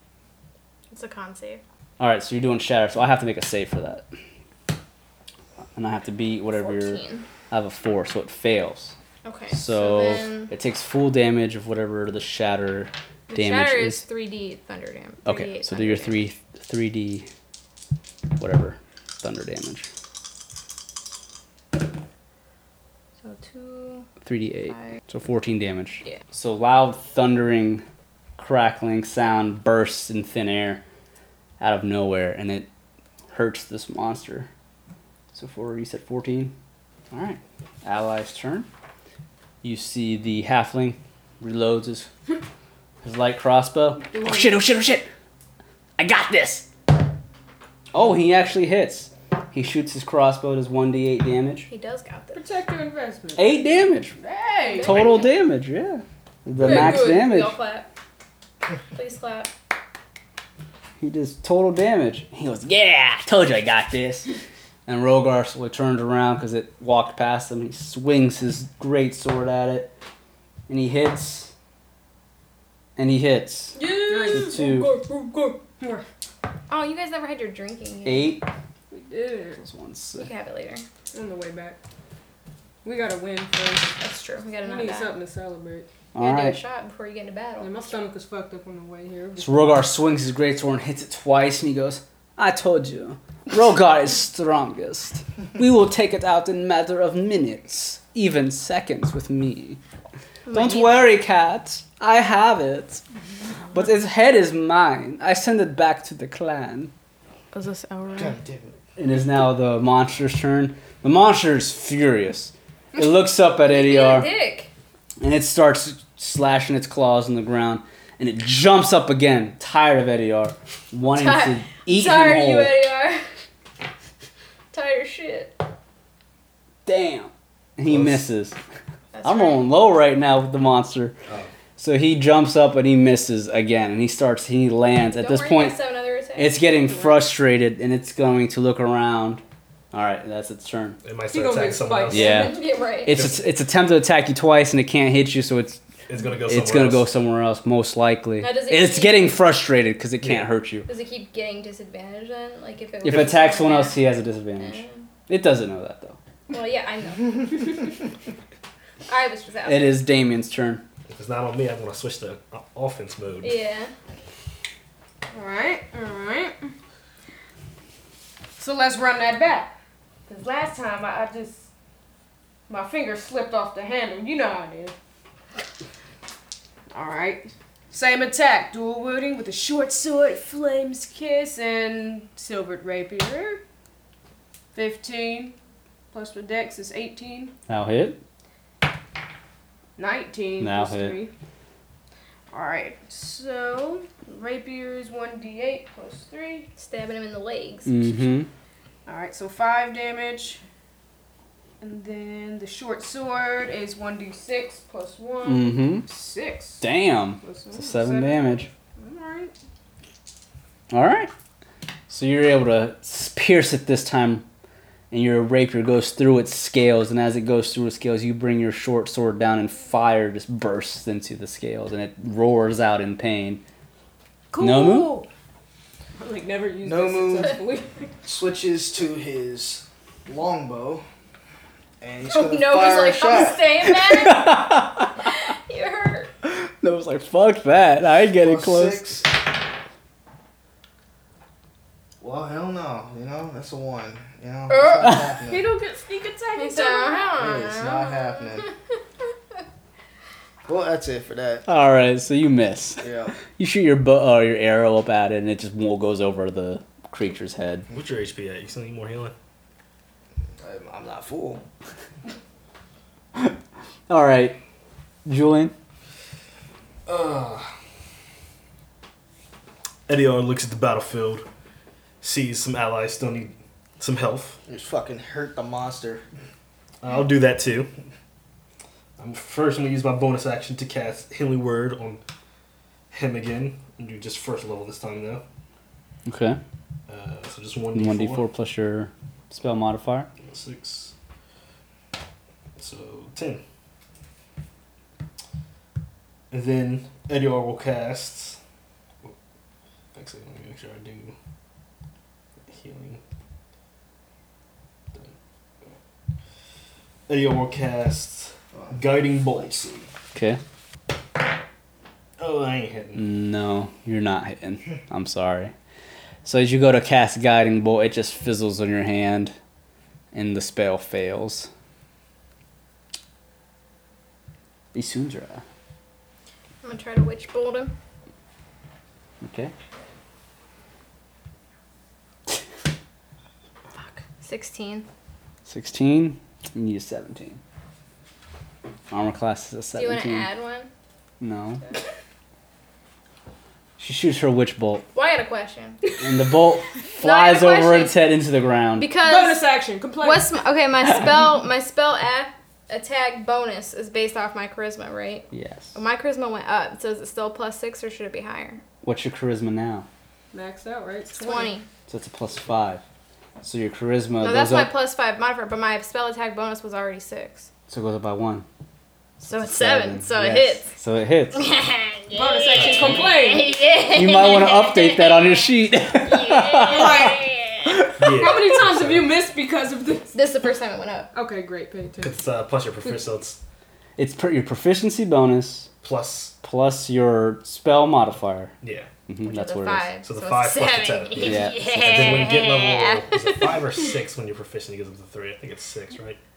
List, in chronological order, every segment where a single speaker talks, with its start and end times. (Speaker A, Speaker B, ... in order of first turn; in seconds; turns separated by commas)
Speaker A: 0.9-1.6, Speaker B: 2.0-4.0, Speaker B: 5.8-8.9, Speaker A: 6.5-7.2, Speaker A: 9.2-10.5, Speaker B: 9.5-14.0, Speaker A: 13.3-16.3, Speaker B: 15.2-17.3, Speaker B: 18.4-19.9, Speaker A: 23.2-24.1, Speaker B: 24.2-27.8, Speaker B: 28.4-30.8, Speaker B: 31.6-32.7, Speaker B: 33.3-34.5, Speaker B: 35.3-36.5, Speaker B: 37.1-38.7, Speaker B: 39.6-42.1, Speaker B: 43.0-45.1, Speaker C: 44.1-44.5, Speaker B: 46.0-46.7, Speaker B: 47.9-51.7, Speaker A: 51.7-52.5, Speaker C: 52.3-55.1, Speaker B: 53.4-54.1, Speaker A: 54.6-55.2, Speaker B: 54.8-57.6, Speaker A: 56.6-57.9, Speaker A: 58.9-59.5, Speaker B: 61.0-64.3, Speaker B: 64.8-69.9, Speaker B: 70.7-71.5, Speaker B: 73.0-73.8, Speaker A: 73.7-74.6, Speaker C: 74.1-76.0, Speaker B: 74.3-74.9, Speaker A: 76.7-78.4, Speaker B: 78.0-78.5, Speaker C: 78.9-79.6, Speaker B: 79.6-80.3, Speaker A: 80.1-80.8, Speaker C: 81.1-81.8, Speaker C: 82.8-84.0, Speaker A: 84.0-85.1, Speaker C: 84.6-85.9, Speaker B: 86.1-86.6, Speaker A: 86.2-87.9, Speaker C: 87.6-89.6, Speaker B: 89.4-99.8, Speaker A: 100.5-101.1, Speaker B: 100.5-103.0, Speaker B: 103.7-106.9, Speaker A: 107.5-108.4, Speaker D: 108.2-108.7, Speaker B: 109.0-114.3, Speaker A: 113.7-114.7, Speaker B: 115.2-122.8, Speaker A: 121.1-123.2, Speaker A: 124.7-125.6, Speaker B: 126.8-128.6, Speaker E: 127.9-128.2, Speaker A: 129.1-129.7, Speaker B: 129.2-131.2, Speaker B: 131.8-135.8, Speaker A: 135.1-136.6, Speaker B: 136.3-141.0, Speaker C: 136.8-137.2, Speaker E: 141.0-143.4, Speaker C: 141.3-142.5, Speaker B: 142.1-145.8, Speaker A: 142.1-143.3, Speaker E: 146.1-147.1, Speaker B: 146.4-150.9, Speaker A: 148.4-149.4, Speaker E: 150.2-150.5, Speaker A: 150.9-155.0, Speaker B: 153.0-156.2, Speaker A: 156.5-158.0, Speaker A: 159.1-160.0, Speaker B: 159.6-160.8, Speaker E: 161.1-163.6, Speaker A: 163.4-163.9, Speaker C: 165.3-166.7, Speaker C: 168.6-169.7, Speaker C: 170.3-171.7, Speaker C: 172.7-174.9, Speaker C: 176.9-183.6, Speaker C: 184.7-185.6, Speaker C: 186.1-187.5, Speaker B: 187.7-188.2, Speaker C: 190.0-191.3, Speaker B: 190.6-191.2, Speaker C: 192.5-196.7, Speaker A: 196.8-198.3, Speaker B: 197.8-198.5, Speaker C: 199.1-200.6, Speaker C: 201.8-206.8, Speaker B: 205.4-206.1, Speaker B: 206.8-208.7, Speaker C: 207.4-209.5, Speaker B: 210.9-211.3, Speaker B: 212.1-214.4, Speaker B: 215.1-223.6, Speaker C: 224.5-225.3, Speaker B: 224.6-225.2, Speaker C: 226.2-228.1, Speaker D: 226.8-227.6, Speaker D: 228.2-231.0, Speaker D: 232.0-233.7, Speaker A: 232.3-236.3, Speaker B: 233.8-235.2, Speaker B: 236.4-239.0, Speaker D: 238.4-239.3, Speaker D: 242.2-245.6, Speaker C: 245.5-247.3, Speaker A: 246.6-248.7, Speaker D: 247.4-248.7, Speaker D: 250.7-251.7, Speaker B: 251.7-257.9, Speaker D: 253.0-253.3, Speaker E: 257.9-259.3, Speaker D: 260.6-261.6, Speaker B: 264.1-264.6, Speaker B: 265.2-265.7, Speaker D: 267.1-267.7, Speaker E: 270.1-271.4, Speaker E: 272.2-274.6, Speaker D: 274.7-276.2, Speaker E: 277.0-277.9, Speaker E: 279.2-282.2, Speaker E: 283.1-285.4, Speaker B: 286.2-286.6, Speaker E: 287.1-288.4, Speaker B: 287.9-290.3, Speaker E: 290.4-291.1, Speaker E: 292.8-293.6, Speaker E: 296.5-298.6, Speaker E: 300.1-301.3, Speaker E: 302.7-303.2, Speaker E: 307.3-310.1, Speaker B: 310.3-310.6, Speaker E: 312.4-313.2, Speaker B: 313.1-315.7, Speaker B: 316.4-319.5, Speaker B: 320.3-321.7, Speaker B: 324.9-325.6, Speaker A: 326.8-327.9, Speaker B: 329.4-329.7, Speaker A: 334.0-335.1, Speaker B: 335.6-337.6, Speaker B: 339.1-340.5, Speaker A: 339.9-340.9, Speaker B: 341.4-341.8, Speaker B: 344.0-345.1, Speaker A: 345.1-346.1, Speaker B: 346.2-349.1, Speaker A: 347.1-348.2, Speaker A: 349.0-349.6, Speaker C: 349.2-350.5, Speaker A: 350.2-358.8, Speaker B: 355.5-355.9, Speaker B: 359.0-360.1, Speaker C: 360.5-361.7, Speaker A: 361.3-361.8, Speaker B: 362.1-363.0, Speaker B: 363.6-365.0, Speaker A: 364.4-367.7, Speaker B: 367.9-368.6, Speaker A: 369.4-370.9, Speaker B: 369.5-371.7, Speaker A: 371.5-375.7, Speaker C: 372.3-373.9, Speaker E: 372.7-373.3, Speaker B: 374.1-378.3, Speaker A: 376.2-377.8, Speaker C: 376.8-377.6, Speaker E: 378.2-379.3, Speaker C: 378.3-380.3, Speaker A: 380.3-381.3, Speaker C: 381.3-382.4, Speaker E: 382.2-383.6, Speaker B: 384.2-385.9, Speaker E: 386.0-386.6, Speaker B: 386.6-388.7, Speaker E: 388.8-389.1, Speaker B: 389.3-390.1, Speaker A: 389.4-394.1, Speaker E: 390.2-396.4, Speaker B: 391.4-392.5